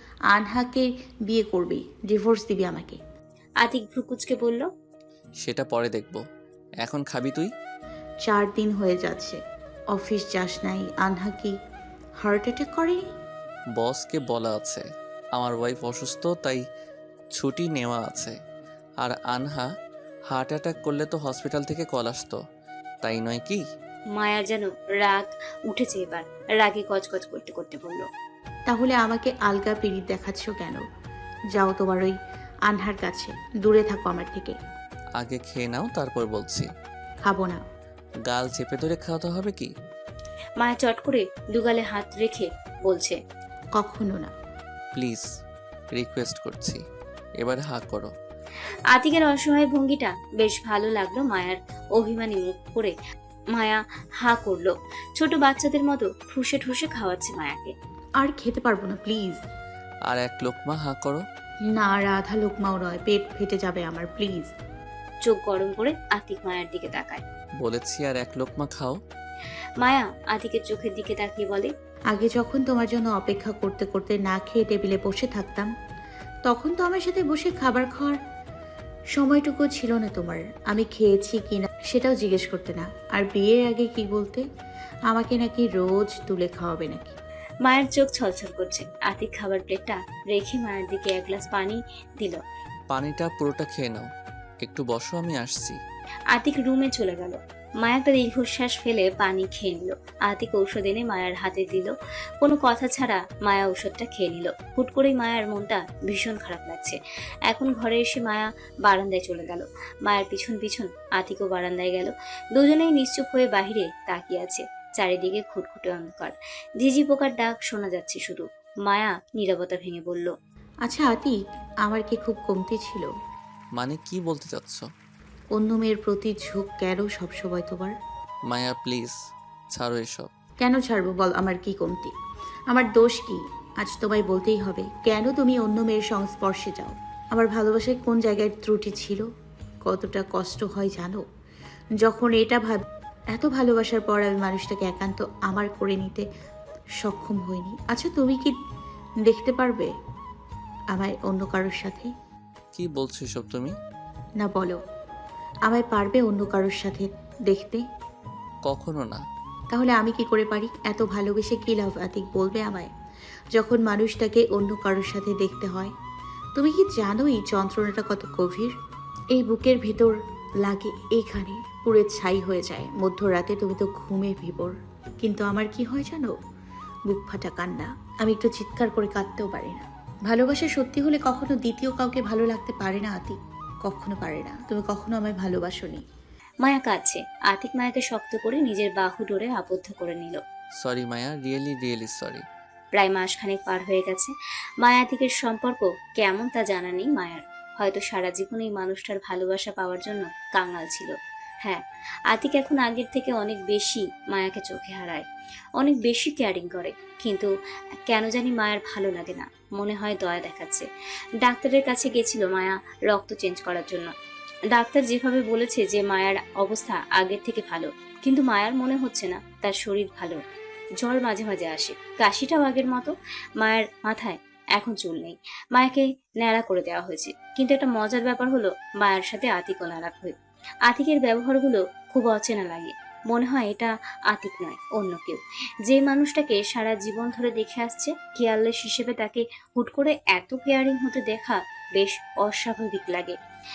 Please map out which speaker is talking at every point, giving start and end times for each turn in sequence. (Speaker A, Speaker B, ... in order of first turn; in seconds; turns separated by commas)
Speaker A: 0.3-3.0, Speaker B: 3.6-4.7, Speaker C: 5.4-6.2, Speaker C: 6.8-7.5, Speaker A: 8.2-9.4, Speaker A: 9.9-11.5, Speaker A: 12.2-13.1, Speaker C: 13.8-14.8, Speaker C: 15.3-16.6, Speaker C: 17.4-18.4, Speaker C: 19.0-19.7, Speaker C: 20.3-22.4, Speaker C: 23.0-23.6, Speaker B: 24.1-28.1, Speaker A: 28.7-30.8, Speaker A: 31.5-32.1, Speaker A: 32.7-34.5, Speaker C: 35.2-36.7, Speaker A: 37.2-37.6, Speaker C: 38.2-39.7, Speaker B: 40.6-43.2, Speaker A: 43.8-44.3, Speaker C: 44.9-45.2, Speaker C: 45.9-46.8, Speaker C: 47.4-48.1, Speaker B: 48.9-52.9, Speaker B: 53.5-57.7, Speaker A: 58.2-59.4, Speaker C: 60.1-61.2, Speaker A: 61.8-64.5, Speaker B: 65.2-67.2, Speaker C: 67.6-69.0, Speaker B: 69.8-71.7, Speaker A: 72.1-75.7, Speaker A: 76.5-78.2, Speaker A: 79.2-84.4, Speaker A: 85.1-87.1, Speaker B: 87.6-92.4, Speaker C: 92.9-94.0, Speaker C: 94.6-95.8, Speaker B: 96.3-107.0, Speaker B: 107.5-120.3, Speaker A: 120.8-123.1, Speaker C: 123.8-124.8, Speaker A: 125.5-127.9, Speaker C: 128.5-129.1, Speaker C: 129.7-130.3, Speaker A: 130.6-132.1, Speaker A: 132.7-139.2, Speaker A: 139.8-141.2, Speaker A: 142.0-142.8, Speaker A: 143.3-146.2, Speaker A: 147.0-148.6, Speaker A: 149.2-149.9, Speaker A: 150.9-152.1, Speaker C: 152.7-153.7, Speaker A: 154.4-154.8, Speaker A: 155.7-157.8, Speaker C: 158.7-159.2, Speaker A: 159.7-162.9, Speaker A: 163.6-165.9, Speaker A: 166.6-168.7, Speaker A: 169.3-176.3, Speaker A: 177.1-186.0, Speaker B: 186.6-190.4, Speaker C: 190.8-192.4, Speaker B: 192.9-201.1, Speaker B: 201.6-205.2, Speaker B: 205.8-207.5, Speaker B: 208.1-210.8, Speaker B: 211.4-214.1, Speaker B: 214.7-220.4, Speaker B: 221.0-230.3, Speaker B: 230.8-243.3